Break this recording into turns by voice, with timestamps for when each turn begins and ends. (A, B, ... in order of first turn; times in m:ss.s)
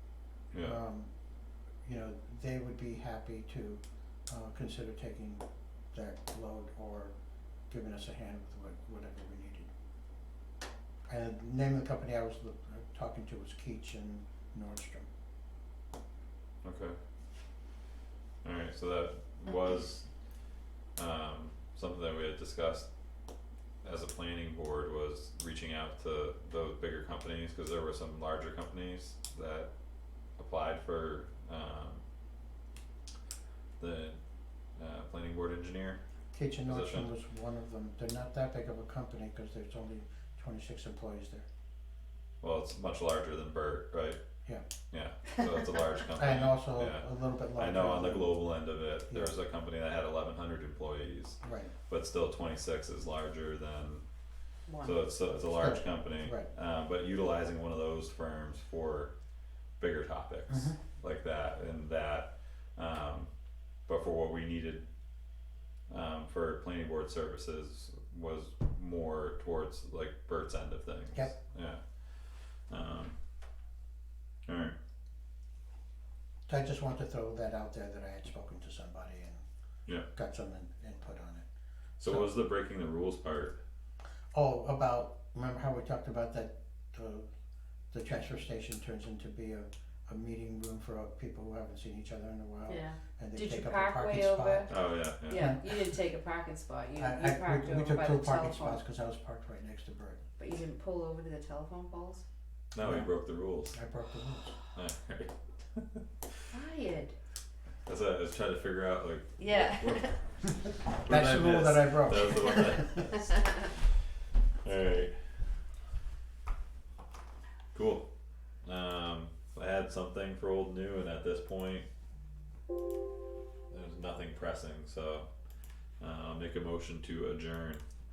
0:00.5-0:00.8 A
0:00.5-0:01.1 B
0:01.8-0:07.1 B
0:07.7-0:09.7 B
0:11.1-0:15.1 B
0:16.6-0:17.0 A
0:18.4-0:20.4 A
0:20.9-0:22.9 A
0:23.8-0:29.7 A
0:30.4-0:32.0 A
0:33.8-0:34.2 A
0:34.8-0:36.0 A
0:36.3-0:41.4 B
0:36.6-0:37.1 A
0:42.4-0:44.2 A
0:44.9-0:54.0 A
0:46.1-0:48.4 B
0:49.1-0:49.3 B
0:51.4-0:51.7 B
0:54.7-0:55.0 C
0:54.8-0:59.1 A
0:55.5-0:56.5 B
0:59.8-1:03.3 A
1:00.5-1:00.8 B
1:03.9-1:04.8 A
1:05.9-1:13.1 A
1:14.4-1:14.8 A
1:16.5-1:19.4 B
1:20.0-1:21.4 B
1:22.0-1:23.6 A
1:24.3-1:27.3 B
1:27.9-1:35.6 B
1:32.7-1:34.7 C
1:34.7-1:35.5 A
1:35.2-1:38.8 C
1:37.0-1:40.2 B
1:40.4-1:42.2 C
1:42.7-1:43.8 A
1:42.8-1:43.1 B
1:43.7-1:44.6 B
1:44.7-1:46.0 A
1:46.5-1:47.1 C
1:47.8-1:53.8 A
1:49.4-1:50.2 C
1:51.0-1:53.2 B
1:54.6-1:55.2 A
1:57.7-1:58.1 A
1:58.6-2:01.9 A
2:03.7-2:05.3 A
2:06.0-2:07.8 A